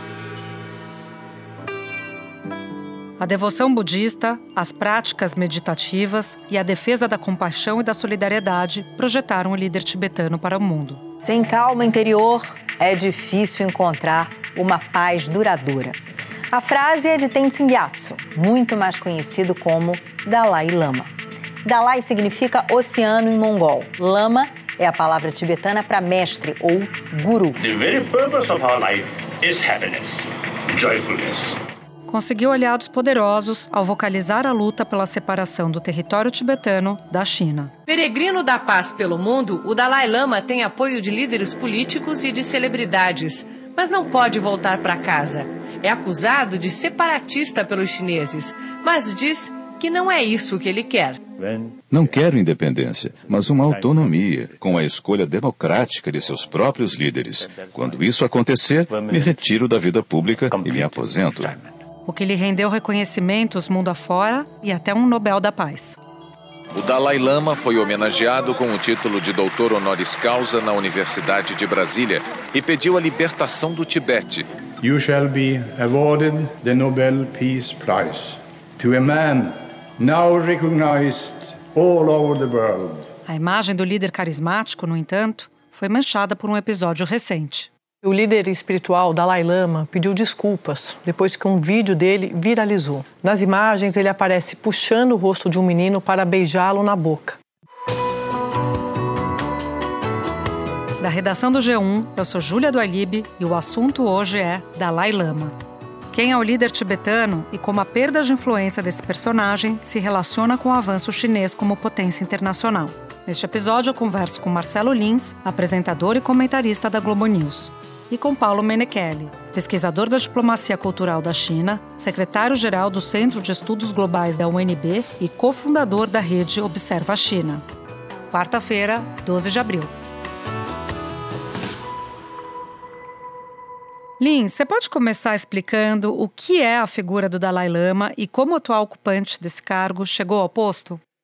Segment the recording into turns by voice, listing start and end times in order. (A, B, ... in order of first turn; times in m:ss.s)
0:03.2-0:11.0 A
0:11.2-0:16.0 B
0:16.5-0:21.1 B
0:21.6-0:27.6 B
0:27.6-0:31.6 C
0:32.1-0:37.7 A
0:37.9-0:51.2 D
0:51.4-0:52.2 C
0:51.9-1:01.6 E
0:53.2-0:54.8 C
0:57.4-0:58.2 C
0:58.9-0:59.5 C
1:00.3-1:01.7 C
1:02.1-1:06.0 A
1:06.7-1:14.4 F
1:14.8-1:23.1 G
1:23.2-1:27.7 A
1:28.0-1:37.4 H
1:41.0-1:45.5 A
1:46.1-2:07.6 A
2:08.3-2:09.9 A
2:14.2-2:21.0 A